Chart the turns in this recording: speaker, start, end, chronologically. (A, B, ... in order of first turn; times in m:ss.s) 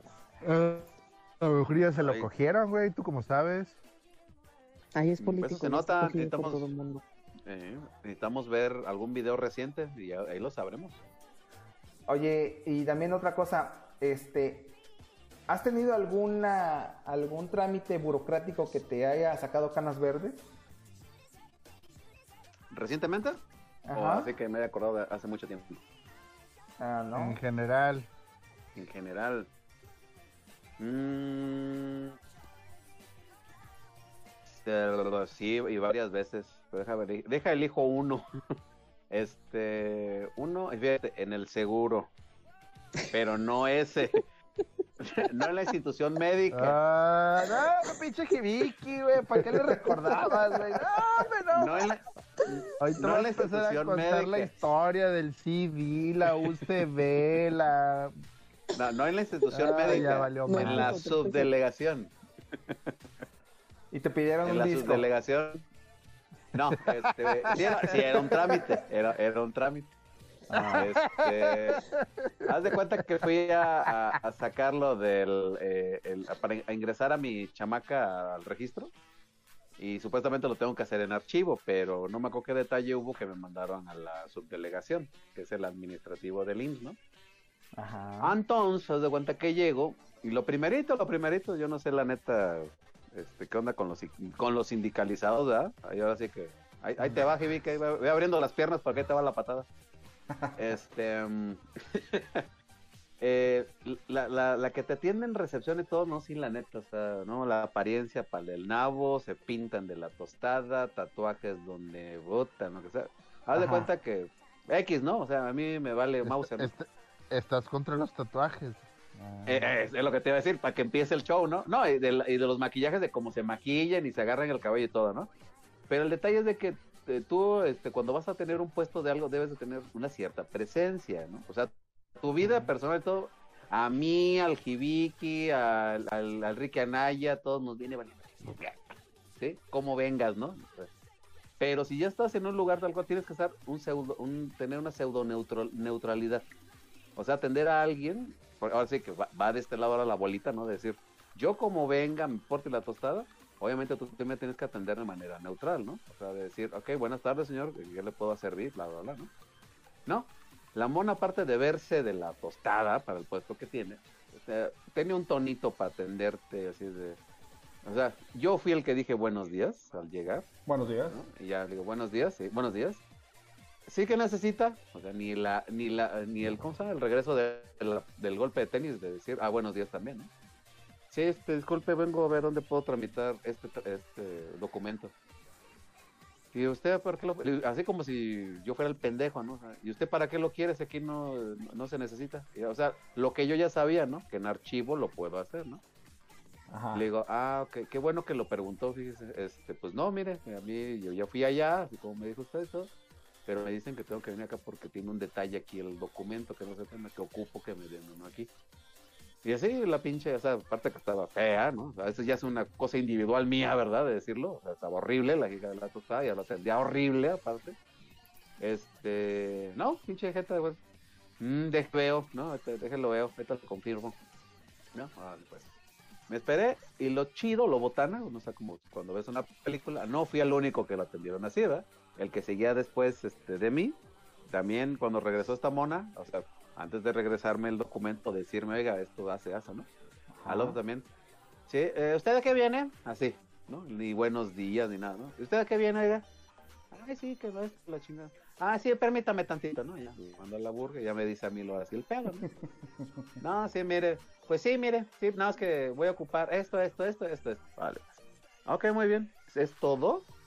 0:00.4-0:00.9 A
0:01.4-0:03.8 A
0:02.0-0:02.3 B
0:05.0-0:07.0 C
0:05.2-0:06.7 B
0:07.5-0:11.0 B
0:12.1-0:14.8 D
0:15.5-0:20.5 D
0:22.7-0:23.4 B
0:23.9-0:24.3 D
0:23.9-0:25.8 B
0:26.8-0:27.4 D
0:27.2-0:28.1 A
0:28.8-0:29.5 B
0:30.8-0:32.1 B
0:34.5-0:38.3 B
0:39.1-0:42.1 B
0:43.1-0:44.2 B
0:45.0-0:46.8 B
0:46.5-0:51.7 A
0:49.8-0:50.2 D
0:51.5-0:52.0 B
0:52.8-0:58.1 A
0:53.0-0:54.5 B
0:58.7-1:02.2 B
0:59.5-1:01.1 A
1:00.4-1:01.5 C
1:03.9-1:05.0 D
1:04.4-1:05.6 B
1:06.5-1:09.9 B
1:10.5-1:11.8 B
1:10.5-1:12.7 A
1:12.5-1:18.9 B
1:19.8-1:27.0 B
1:27.8-1:28.4 D
1:28.2-1:39.7 B
1:40.6-1:42.4 B
1:43.2-1:56.7 B
1:53.5-1:53.9 D
1:56.3-1:59.7 A
1:59.5-2:05.3 B
2:05.9-2:18.9 B
2:19.4-2:20.9 B
2:21.6-2:26.5 B
2:27.2-2:39.3 B
2:40.1-2:47.2 B
2:47.8-2:50.5 B
2:50.7-2:51.2 D
2:51.1-2:53.0 B
2:53.9-3:00.3 B
3:01.1-3:05.1 B
3:06.5-3:15.8 B
3:16.7-3:17.1 D
3:16.9-3:22.9 B
3:23.5-3:28.5 B
3:29.4-3:37.8 B
3:38.6-3:40.8 B
3:41.4-3:44.2 B
3:44.9-3:45.7 B
3:46.3-3:54.0 B
3:54.5-3:59.9 B
4:00.4-4:00.8 D
4:00.5-4:01.1 B
4:01.7-4:06.2 B
4:06.9-4:12.5 B
4:13.4-4:18.1 B
4:18.7-4:20.2 B